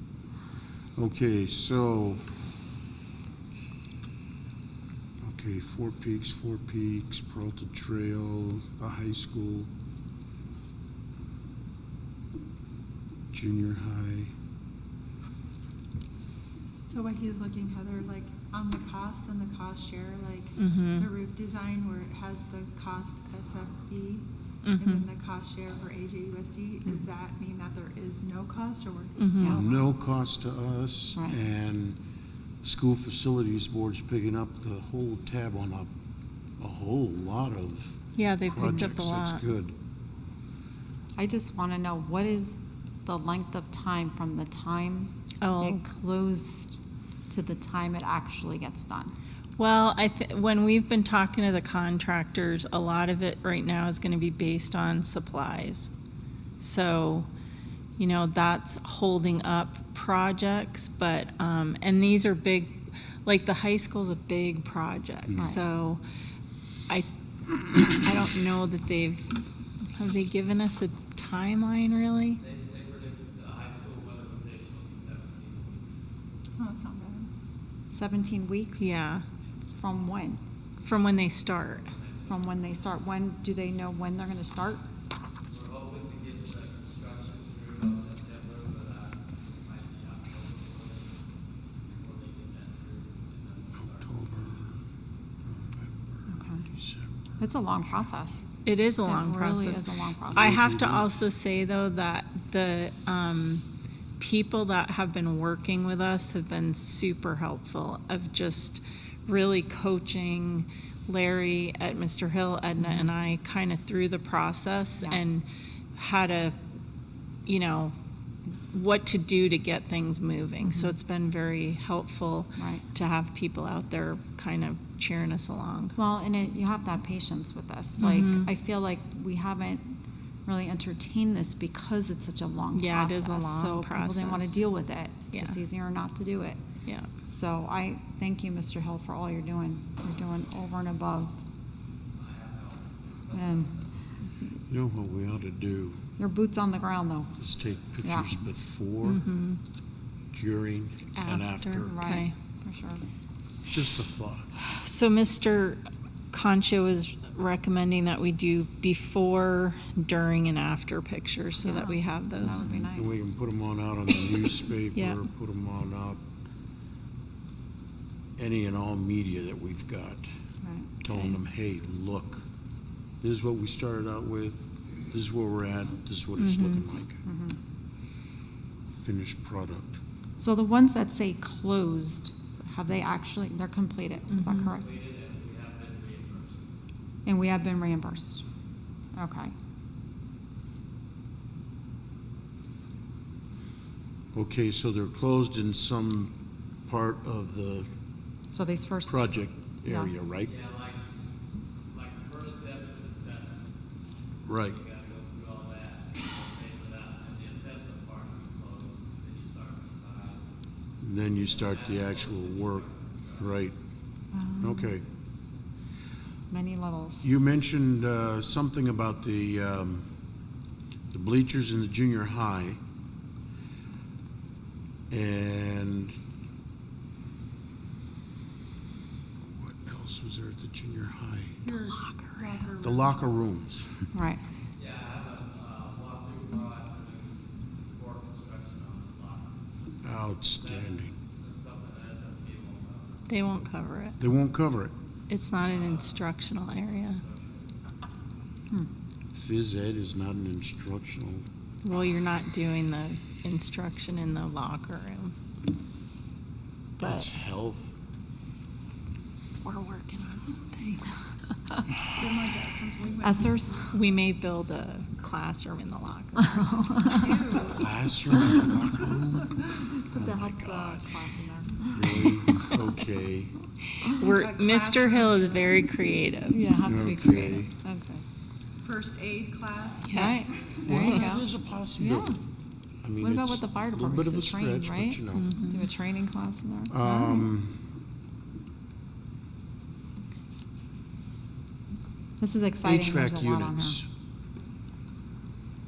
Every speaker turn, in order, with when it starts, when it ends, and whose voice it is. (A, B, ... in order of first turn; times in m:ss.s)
0:01.0-0:02.3 A
0:05.2-0:09.7 A
0:13.3-0:14.3 A
0:16.1-0:29.9 B
0:20.6-0:21.1 C
0:24.6-0:25.0 C
0:29.2-0:29.6 C
0:29.4-0:32.0 A
0:32.6-0:35.9 A
0:36.6-0:39.8 A
0:38.2-0:39.4 C
0:41.2-0:49.1 D
0:45.4-0:45.8 C
0:49.6-0:55.9 C
0:56.6-0:57.3 C
0:58.0-1:06.0 C
1:07.6-1:09.3 C
1:09.9-1:12.4 C
1:12.4-1:15.9 E
1:16.6-1:17.3 B
1:17.9-1:19.0 D
1:18.8-1:19.2 C
1:19.8-1:20.4 D
1:20.8-1:21.9 C
1:21.7-1:22.7 E
1:22.3-1:24.8 D
1:25.5-1:31.1 E
1:31.9-1:34.5 E
1:33.8-1:34.8 A
1:35.5-1:37.4 A
1:36.3-1:36.7 D
1:37.4-1:38.4 D
1:38.6-1:43.6 C
1:39.0-1:40.6 D
1:40.3-1:41.1 A
1:44.2-1:56.6 C
1:57.5-1:58.0 C
1:58.7-2:06.0 C
2:02.6-2:02.8 D
2:06.0-2:16.6 D
2:08.0-2:08.5 C
2:12.8-2:14.7 C
2:15.3-2:15.6 C
2:16.8-2:17.1 C
2:17.3-2:21.4 D
2:22.1-2:23.9 E
2:23.3-2:23.8 D
2:24.7-2:26.0 A
2:26.2-2:27.4 D
2:27.4-2:29.2 A
2:28.0-2:28.3 D
2:29.0-2:29.6 C
2:30.3-2:32.0 A
2:31.2-2:32.3 C
2:31.8-2:33.0 D
2:33.6-2:34.5 A
2:34.6-2:42.9 C
2:41.6-2:43.2 D
2:42.7-2:46.2 A
2:44.9-2:45.2 C
2:48.4-2:50.3 A
2:50.6-2:50.9 D
2:51.0-2:52.5 A
2:53.2-2:57.2 A
2:56.4-2:56.9 C
2:57.2-2:57.6 D
2:59.0-3:00.0 A
3:00.4-3:04.8 D
3:04.3-3:04.7 C
3:04.7-3:06.6 E
3:07.2-3:08.4 D
3:09.1-3:09.5 D
3:14.3-3:17.9 A
3:18.5-3:19.3 D
3:19.1-3:20.6 A
3:19.9-3:20.1 D
3:20.5-3:21.0 E
3:21.9-3:23.7 E
3:24.4-3:24.8 A
3:24.7-3:30.5 E
3:31.0-3:33.8 A
3:31.3-3:33.6 E
3:34.3-3:34.9 D
3:34.6-3:35.0 A
3:36.5-3:37.2 D
3:37.2-3:40.1 A
3:41.1-3:42.8 A
3:45.1-3:46.2 A
3:49.5-3:51.6 A
3:51.6-3:53.2 B
3:51.9-3:52.6 C
3:52.8-3:54.1 A
3:54.1-3:54.4 D
3:54.8-3:59.6 E
4:00.0-4:01.1 A
4:00.6-4:03.4 E
4:03.3-4:04.2 C
4:04.2-4:04.9 A
4:05.3-4:07.2 C
4:05.6-4:06.3 E
4:07.1-4:07.7 E
4:09.3-4:11.4 A
4:11.8-4:15.3 C
4:17.0-4:18.0 A
4:19.6-4:21.2 C
4:22.1-4:23.5 B
4:23.2-4:24.0 D
4:23.9-4:26.8 C
4:26.4-4:27.5 D
4:27.3-4:27.8 B
4:27.8-4:31.2 A
4:29.9-4:32.7 D
4:31.9-4:33.6 A
4:34.0-4:36.6 C
4:34.3-4:35.9 B
4:36.5-4:38.2 D
4:36.8-4:37.8 A
4:38.8-4:40.3 B
4:40.1-4:40.4 C
4:40.1-4:42.4 D
4:40.9-4:42.4 A
4:43.0-4:45.5 A
4:43.2-4:47.5 D
4:45.3-4:45.9 C
4:46.9-4:47.8 A
4:52.4-4:54.0 D
4:52.8-4:54.1 A